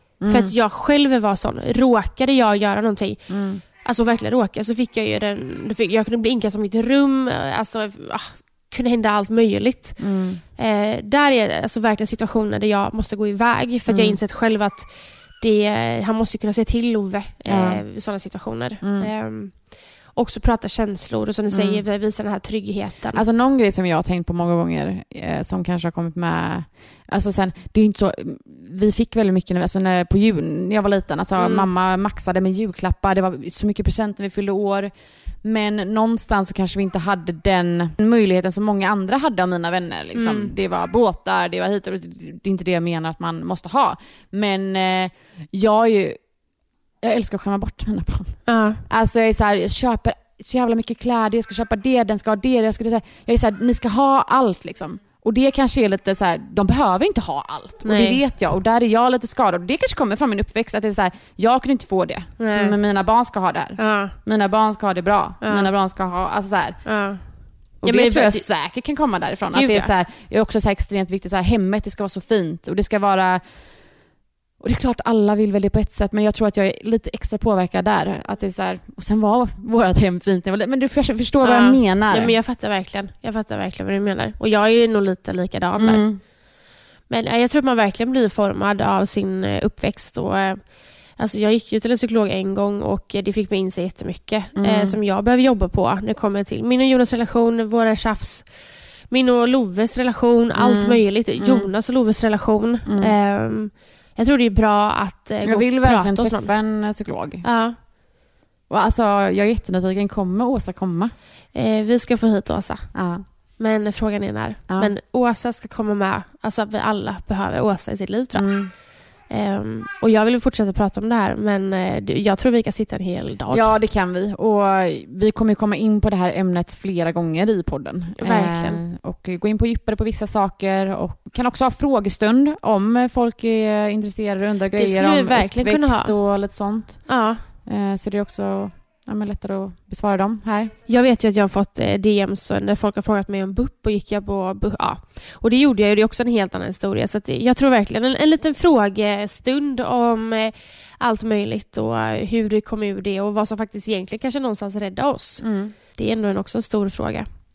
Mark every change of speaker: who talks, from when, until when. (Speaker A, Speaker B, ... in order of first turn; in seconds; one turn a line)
Speaker A: 0.2-0.5
Speaker B: 0.3-3.2
Speaker A: 3.3-3.6
Speaker B: 3.8-10.0
Speaker A: 10.0-10.4
Speaker B: 10.6-14.9
Speaker A: 13.9-14.2
Speaker B: 15.4-23.2
Speaker A: 17.5-17.8
Speaker A: 18.8-19.1
Speaker A: 21.5-21.8
Speaker A: 23.1-34.9
Speaker B: 31.4-31.7
Speaker A: 35.4-46.2
Speaker B: 40.1-40.5
Speaker A: 47.0-66.8
Speaker B: 48.5-48.8
Speaker B: 57.9-58.2
Speaker B: 62.4-62.8
Speaker B: 63.8-64.2
Speaker B: 65.4-65.7
Speaker B: 66.8-67.2
Speaker B: 67.8-68.5
Speaker A: 67.8-73.4
Speaker B: 69.5-69.9
Speaker A: 74.6-82.3
Speaker B: 81.4-86.1
Speaker A: 85.8-86.2
Speaker B: 87.1-90.6
Speaker B: 91.2-98.5
Speaker A: 94.6-95.0
Speaker B: 99.1-106.5
Speaker A: 100.6-101.7
Speaker A: 102.9-103.1
Speaker A: 105.4-107.5
Speaker B: 107.4-107.8
Speaker A: 108.7-111.1
Speaker B: 111.5-112.9
Speaker A: 113.0-113.2
Speaker B: 113.6-118.5
Speaker A: 118.3-118.7
Speaker B: 119.3-123.7
Speaker A: 123.5-137.2
Speaker B: 128.2-128.8
Speaker B: 134.7-136.2
Speaker B: 137.1-137.4
Speaker A: 137.7-140.7
Speaker B: 140.9-157.3
Speaker A: 155.4-155.8